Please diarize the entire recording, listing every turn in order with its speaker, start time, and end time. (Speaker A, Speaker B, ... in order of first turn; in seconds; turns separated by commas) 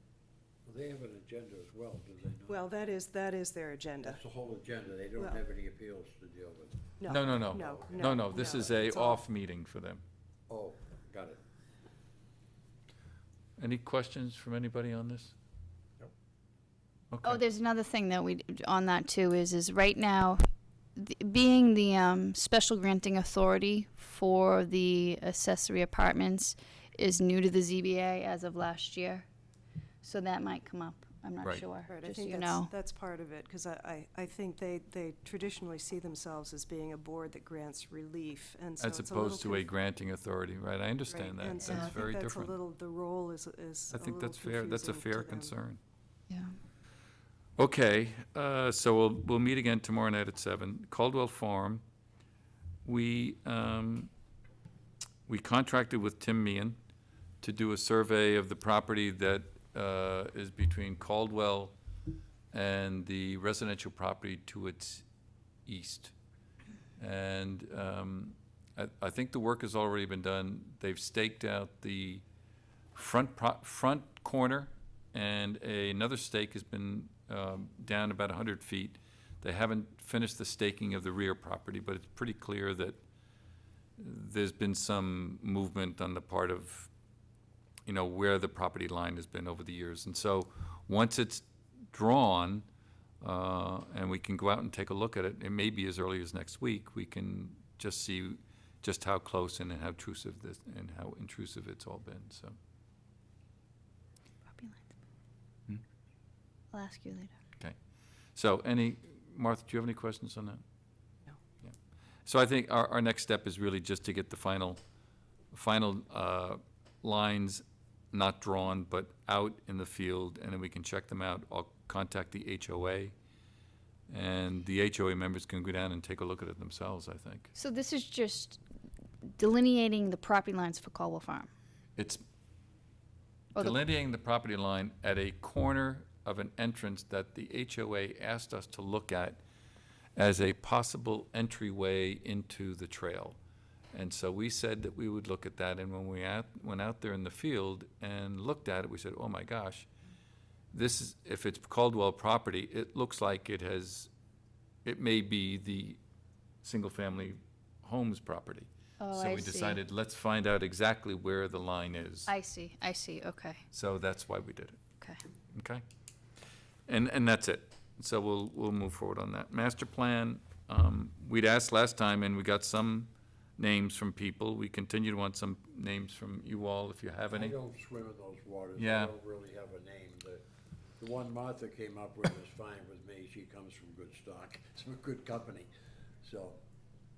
Speaker A: 0.7-2.6, Speaker B: 2.5-4.2, Speaker A: 4.0-8.6, Speaker B: 7.0-9.2, Speaker C: 7.1-10.0, Speaker A: 10.5-11.4, Speaker C: 13.6-15.3, Speaker C: 17.1-17.4, Speaker D: 17.2-20.4, Speaker D: 21.0-29.3, Speaker D: 30.0-32.7, Speaker B: 31.9-39.7, Speaker C: 38.8-42.6, Speaker B: 41.1-45.5, Speaker C: 43.9-45.8, Speaker D: 46.3-46.6, Speaker C: 47.6-51.8, Speaker C: 52.9-54.1, Speaker C: 55.3-56.8, Speaker C: 57.4-61.8, Speaker C: 62.5-65.0, Speaker C: 65.7-66.1, Speaker C: 67.0-72.2, Speaker C: 72.9-83.0, Speaker C: 84.0-86.9, Speaker C: 87.9-92.7, Speaker C: 93.2-102.6, Speaker D: 104.5-105.0, Speaker D: 106.7-107.3, Speaker C: 108.4-110.6, Speaker C: 112.3-114.8, Speaker C: 115.5-123.1, Speaker C: 124.1-127.5, Speaker D: 127.5-128.6, Speaker D: 129.4-131.5, Speaker C: 132.0-132.2, Speaker C: 133.6-139.4, Speaker C: 140.2-143.4, Speaker C: 143.9-149.9, Speaker C: 150.7-154.1, Speaker C: 154.8-156.0, Speaker C: 156.6-162.3, Speaker D: 159.0-159.8, Speaker D: 162.3-163.6, Speaker C: 163.7-164.8, Speaker C: 165.5-165.8, Speaker C: 166.9-177.6, Speaker A: 177.3-180.4, Speaker C: 178.8-179.1, Speaker A: 181.0-185.7, Speaker A: 186.2-186.6